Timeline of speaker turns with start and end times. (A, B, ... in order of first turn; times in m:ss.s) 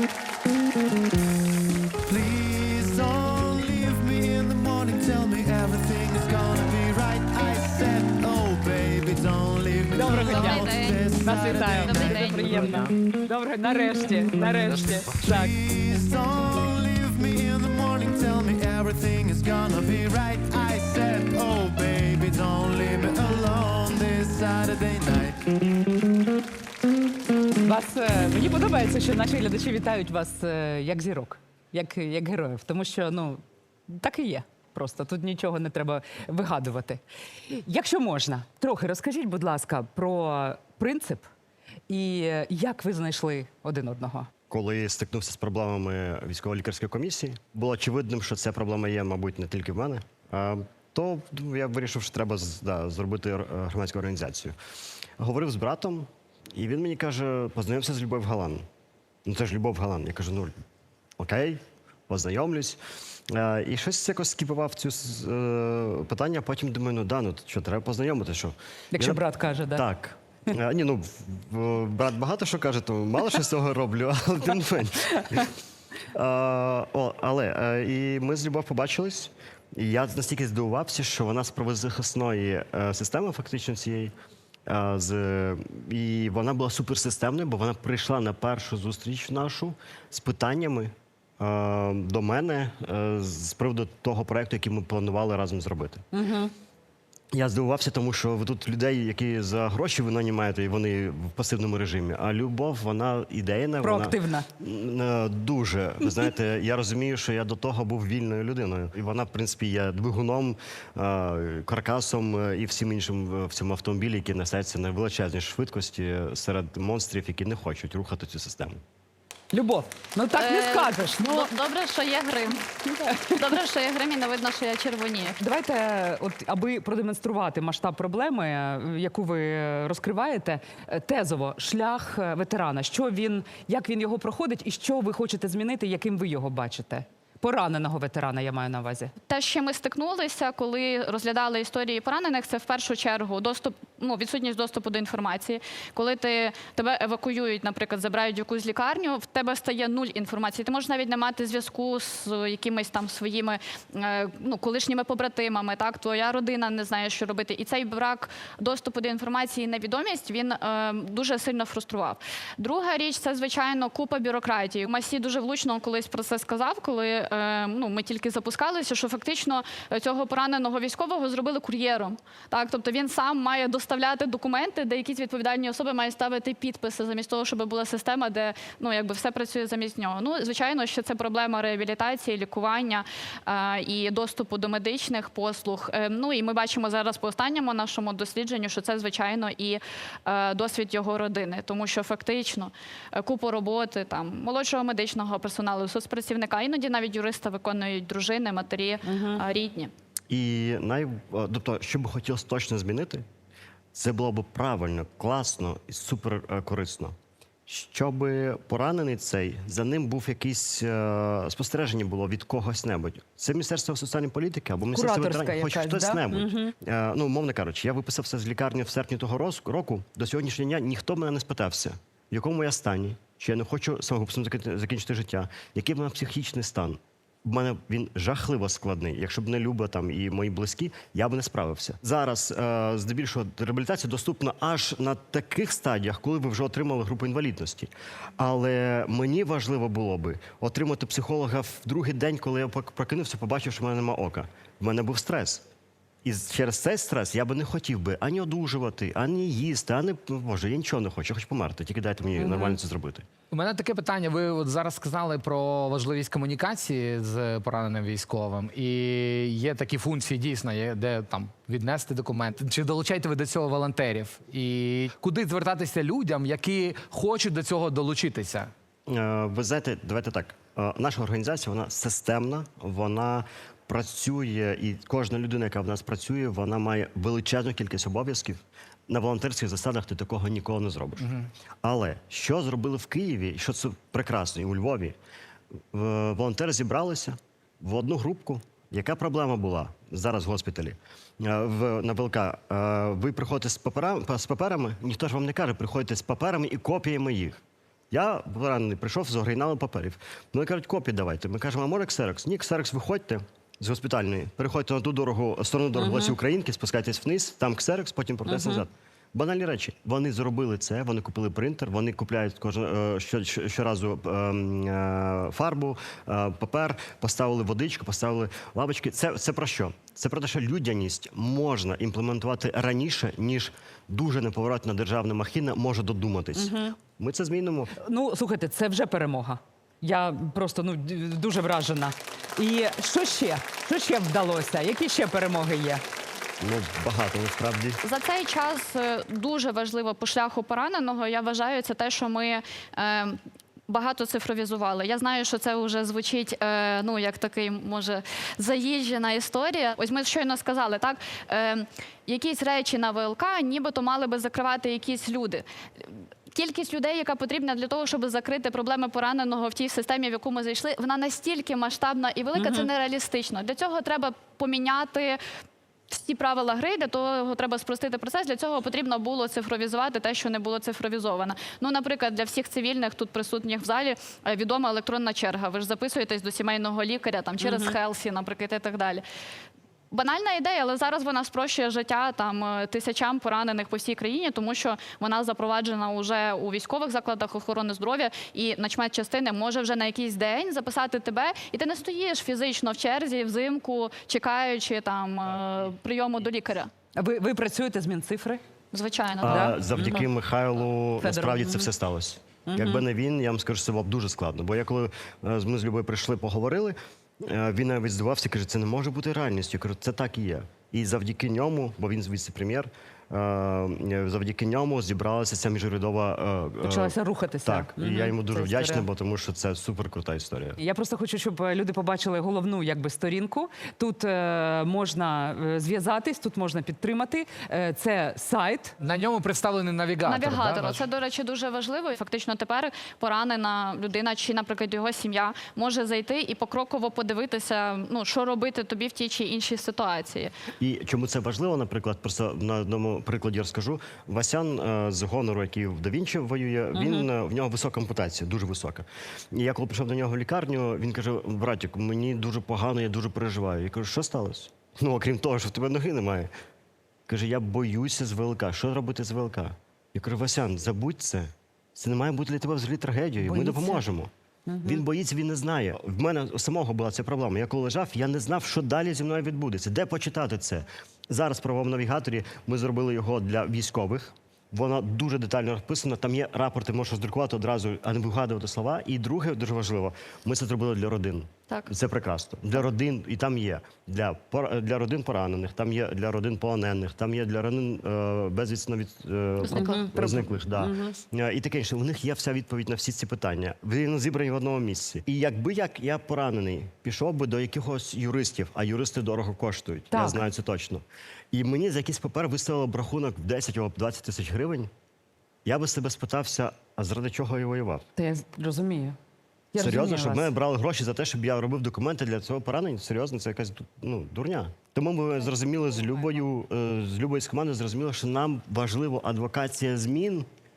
0:02.1-0:12.8 A
0:09.9-0:15.6 B
0:10.1-0:12.2 C
0:15.0-0:25.4 A
0:27.6-0:41.3 B
0:41.9-0:44.3 B
0:44.5-0:54.6 D
0:55.2-0:58.6 D
0:59.3-1:00.5 D
1:01.2-1:02.8 D
1:03.3-1:15.5 D
1:08.9-1:09.8 B
1:16.1-1:24.1 D
1:24.7-1:36.0 D
1:36.1-1:36.5 B
1:37.3-1:58.8 D
1:43.8-1:44.5 B
1:59.5-2:01.5 B
2:00.3-2:02.6 C
2:03.0-2:03.4 B
2:03.3-2:05.4 C
2:05.4-2:19.1 B
2:19.2-3:19.9 C
3:19.0-3:19.4 B
3:20.3-3:23.2 D
3:23.9-3:27.1 D
3:27.7-4:05.6 D
3:34.9-3:36.7 B
4:06.2-4:13.2 D
4:12.4-4:12.8 B
4:13.5-4:28.7 E
4:29.1-4:41.3 D
4:41.2-4:41.4 E
4:41.8-4:45.1 D
4:45.9-4:57.6 D
4:58.1-5:27.9 D
5:06.0-5:06.4 B
5:08.5-5:08.8 B
5:26.6-5:26.9 B
5:28.0-5:36.0 B
5:36.6-5:38.0 D
5:38.0-6:05.4 C
6:02.6-6:02.9 B
6:06.1-6:19.2 C
6:17.6-6:18.0 B
6:20.1-6:36.9 C
6:37.1-6:38.6 B
6:38.9-6:39.7 C
6:39.4-7:00.8 D
6:39.4-6:40.2 B
6:41.2-6:41.9 B
6:42.7-6:43.0 B
6:56.8-6:59.1 B
7:00.8-7:08.9 B
7:09.0-7:11.0 E
7:10.2-7:20.5 C
7:20.8-7:36.5 D
7:26.9-7:27.3 B
7:37.3-7:44.3 D
7:43.4-7:44.0 B
7:44.7-7:45.0 B
7:44.8-8:24.9 D
8:09.6-8:10.0 C
8:09.8-8:11.2 B
8:20.1-8:20.5 B
8:25.6-8:28.0 D
8:28.2-8:29.2 B
8:29.7-8:30.5 B
8:29.8-8:40.4 D